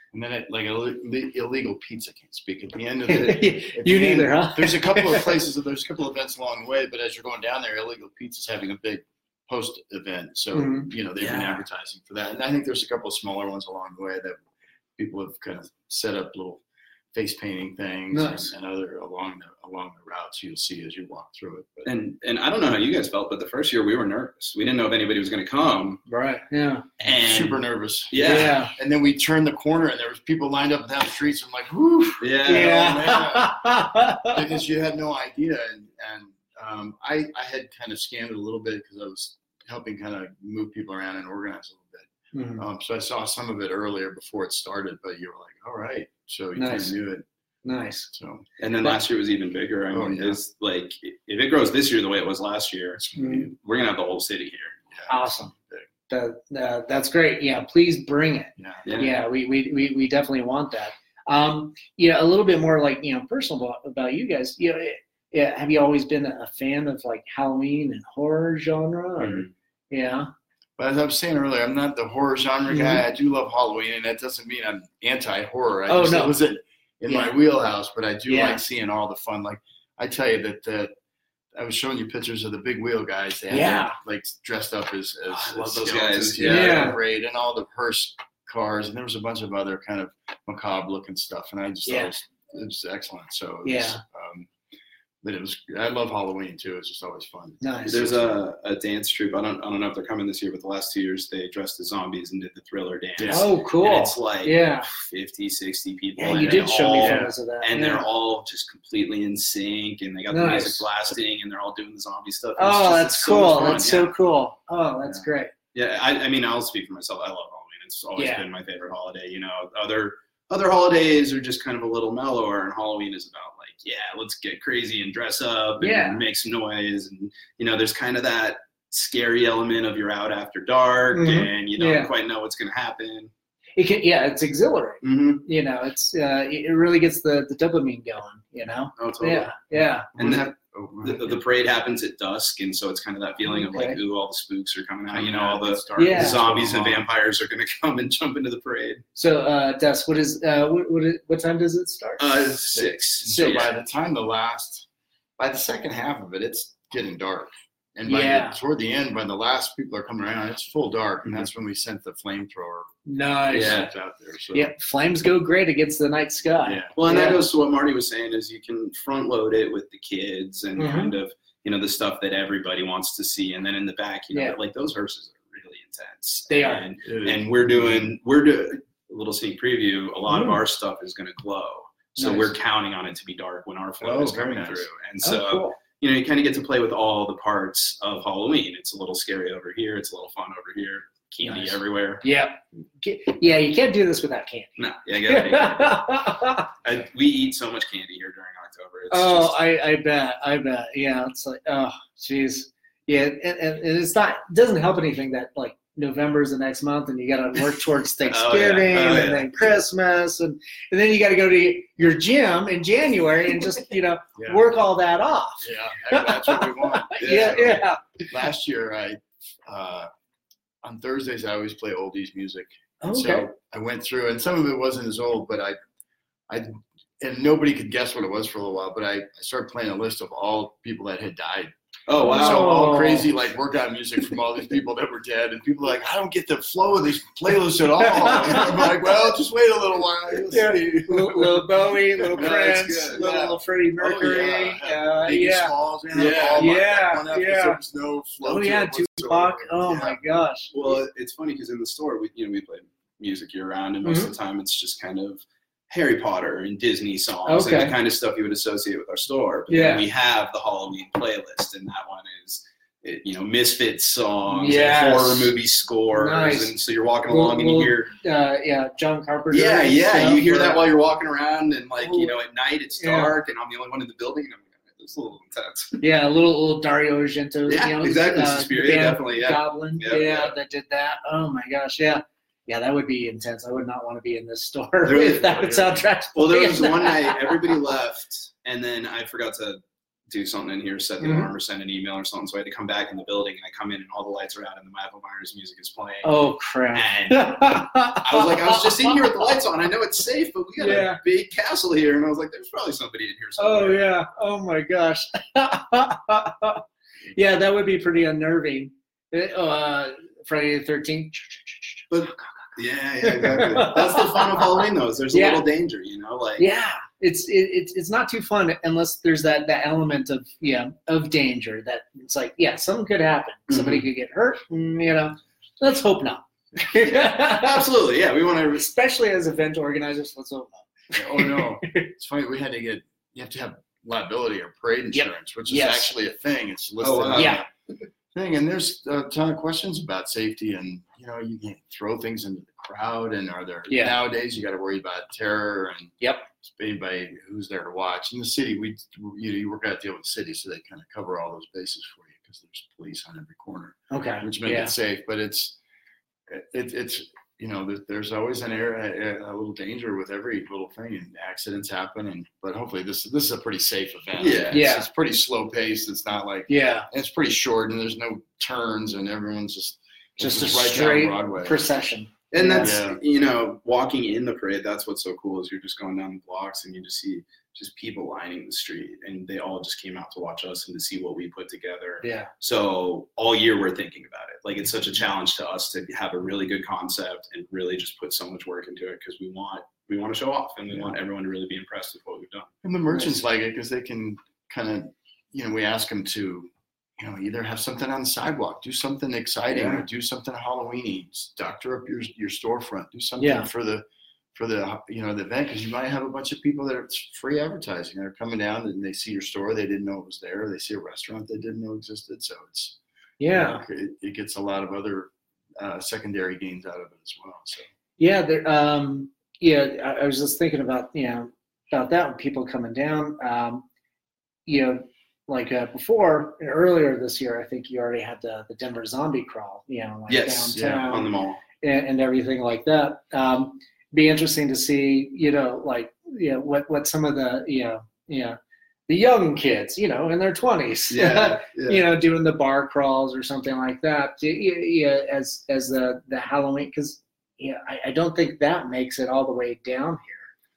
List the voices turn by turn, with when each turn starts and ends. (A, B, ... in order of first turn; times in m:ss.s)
0:00.1-0:14.4 A
0:03.1-0:05.4 B
0:10.5-0:10.9 B
0:11.2-0:11.6 C
0:15.0-0:16.6 A
0:17.1-0:21.9 A
0:18.1-0:18.5 B
0:21.8-0:26.0 C
0:26.1-0:26.8 B
0:27.0-0:27.6 C
0:27.0-0:47.2 A
0:28.1-0:28.6 C
0:28.2-0:28.7 B
0:32.2-0:33.0 C
0:32.5-0:34.4 B
0:42.3-0:42.6 B
0:46.6-0:46.9 B
0:47.6-0:48.1 B
0:48.1-0:48.4 A
0:48.6-0:54.8 C
0:49.9-0:50.4 A
0:53.1-0:53.4 A
0:53.2-0:53.4 B
0:54.9-0:55.9 A
0:55.1-0:55.5 B
0:56.1-1:10.3 B
0:58.6-0:58.8 A
0:58.8-0:59.1 C
1:09.2-1:09.5 C
1:10.8-1:20.9 A
1:12.7-1:13.0 B
1:15.9-1:16.3 B
1:17.1-1:17.3 B
1:18.3-1:18.6 B
1:21.5-1:34.5 A
1:23.5-1:24.0 B
1:25.3-1:26.9 C
1:26.4-1:27.0 B
1:31.8-1:32.1 B
1:33.6-1:34.0 B
1:35.2-1:38.4 A
1:37.6-1:38.0 B
1:37.8-1:54.1 C
1:43.2-1:43.5 A
1:43.3-1:44.9 B
1:46.2-1:48.1 B
1:47.0-1:47.3 A
1:50.3-1:50.8 B
1:52.6-1:55.5 B
1:55.7-2:13.3 C
1:58.2-1:58.4 B
2:05.8-2:06.2 B
2:11.1-2:12.1 B
2:13.8-2:20.1 B
2:15.0-2:15.4 C
2:19.0-2:19.5 C
2:20.1-2:21.4 A
2:20.2-2:20.5 C
2:21.0-2:29.0 C
2:23.4-2:24.0 B
2:25.1-2:27.1 A
2:26.0-2:26.4 B
2:29.2-2:33.6 B
2:32.2-2:33.7 C
2:32.8-2:34.9 A
2:35.4-2:42.9 A
2:38.1-2:38.6 B
2:43.1-2:43.9 B
2:43.5-2:44.7 A
2:43.5-2:43.9 C
2:44.5-2:47.4 B
2:46.6-2:47.0 A
2:47.0-3:12.2 C
2:50.8-2:51.1 B
2:56.5-2:56.9 B
2:57.0-2:58.1 A
3:00.3-3:00.6 B
3:02.2-3:02.5 B
3:04.0-3:04.9 A
3:05.2-3:05.8 B
3:11.4-3:14.8 B
3:14.8-3:16.0 C
3:15.3-3:16.7 B
3:16.8-3:19.6 C
3:19.1-3:38.0 B
3:28.2-3:29.6 C
3:35.6-3:40.1 A
3:37.2-3:37.7 C
3:40.8-3:45.8 A
3:43.0-3:43.5 B
3:46.5-4:10.2 A
3:52.1-3:52.8 C
3:52.2-3:53.3 B
3:58.0-3:58.8 B
3:58.4-3:58.9 C
4:00.5-4:05.7 B
4:02.3-4:03.2 C
4:06.1-4:06.8 C
4:06.5-4:07.8 B
4:08.4-4:11.0 B
4:10.7-4:28.1 C
4:14.0-4:14.3 B
4:17.4-4:17.9 B
4:19.7-4:20.0 B
4:24.5-4:25.5 B
4:26.1-4:26.7 B
4:27.3-4:30.9 B
4:29.5-4:36.0 C
4:32.0-4:32.3 B
4:33.0-4:33.3 B
4:36.0-4:47.7 B
4:37.7-4:40.5 C
4:45.0-5:04.0 C
4:51.2-4:51.5 B
4:56.2-4:59.5 B
5:00.8-5:01.2 B
5:03.6-5:06.8 B
5:07.3-5:12.0 B
5:12.1-5:16.6 C
5:13.2-5:15.6 B
5:16.6-5:27.9 B
5:23.7-5:24.0 C
5:27.0-5:28.9 C
5:28.7-5:32.1 B
5:31.1-5:37.6 A
5:35.1-5:36.1 B
5:37.0-5:37.6 C
5:37.3-5:37.6 B
5:38.3-5:55.8 A
5:43.9-5:44.2 B
5:46.2-5:46.4 B
5:54.1-5:54.9 B
5:56.5-6:11.9 A
6:04.4-6:04.8 C
6:04.7-6:05.1 B
6:06.7-6:07.1 B
6:10.4-6:12.9 B
6:12.5-6:32.7 C
6:12.8-6:13.2 A
6:22.2-6:22.5 B
6:32.8-6:53.0 A
6:33.1-6:33.4 B
6:39.8-6:40.0 C
6:43.4-6:43.7 B
6:53.4-6:53.8 B
6:53.5-6:57.9 A
6:58.2-7:03.8 B
7:04.6-7:30.5 B
7:10.3-7:11.6 C
7:10.7-7:11.1 A
7:21.1-7:22.0 C